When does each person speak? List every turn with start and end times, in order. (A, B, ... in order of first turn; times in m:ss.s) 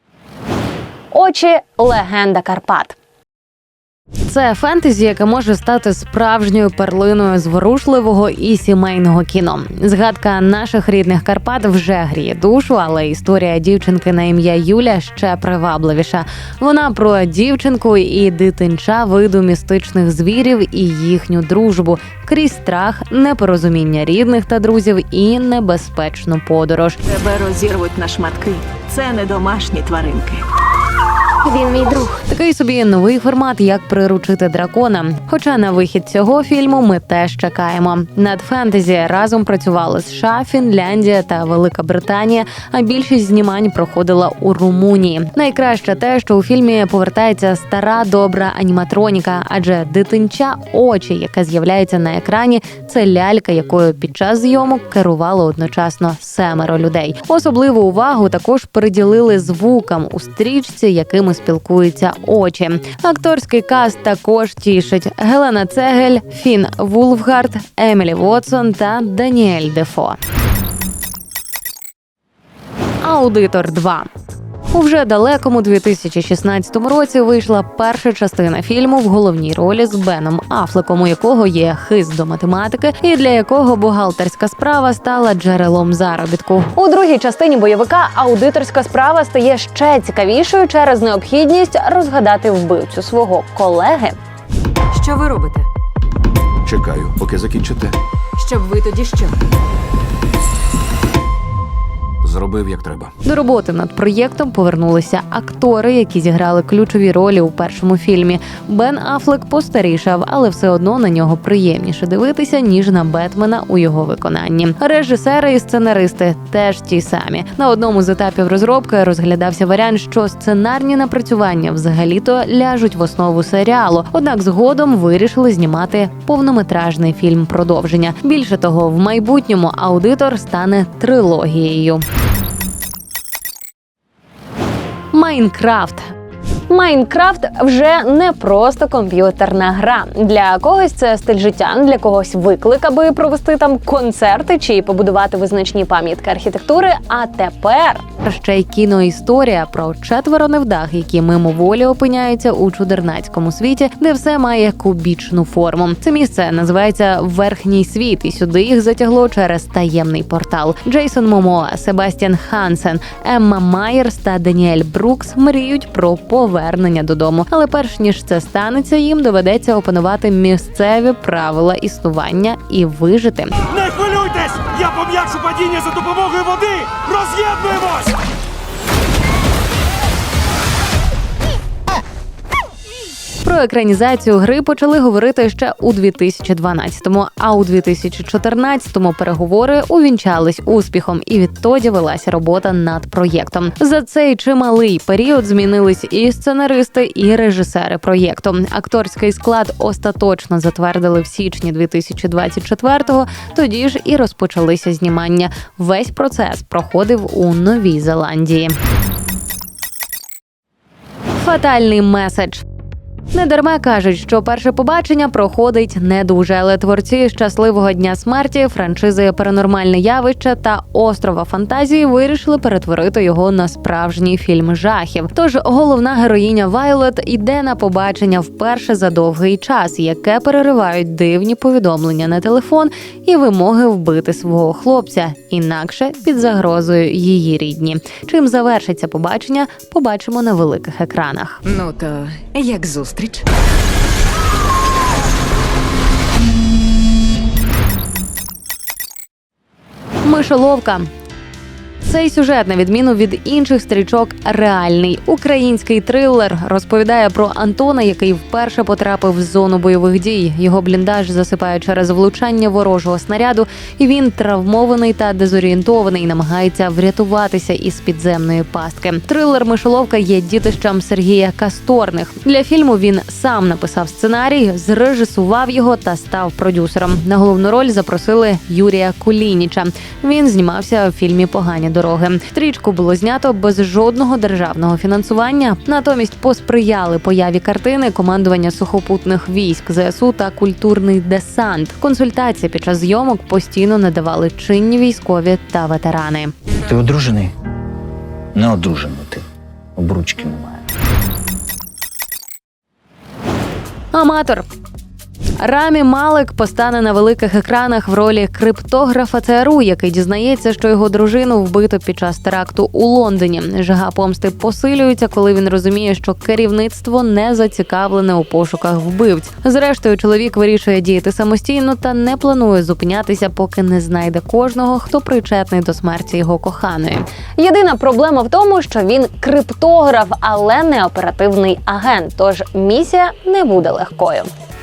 0:01.1-0:03.0 A
0:04.2-0:27.0 A
0:27.0-0:30.4 B
0:32.0-1:10.2 A
1:13.0-1:14.1 A
1:14.7-1:34.2 A
1:34.9-1:35.7 C
1:36.6-1:38.0 D
1:38.4-1:39.4 C
1:42.2-1:43.1 D
1:43.2-2:12.0 A
2:15.1-2:16.0 A
2:16.7-2:54.2 A
2:53.7-2:58.1 E
2:57.5-2:57.9 A
3:03.4-3:28.8 A
3:31.3-3:32.6 A
3:33.3-4:01.6 A
4:01.6-4:03.4 C
4:10.2-4:11.1 A
4:12.0-4:56.5 A
4:56.8-4:57.5 F
4:58.5-4:59.4 F
5:00.0-5:00.8 F
5:04.1-5:04.6 A
5:05.6-5:34.5 A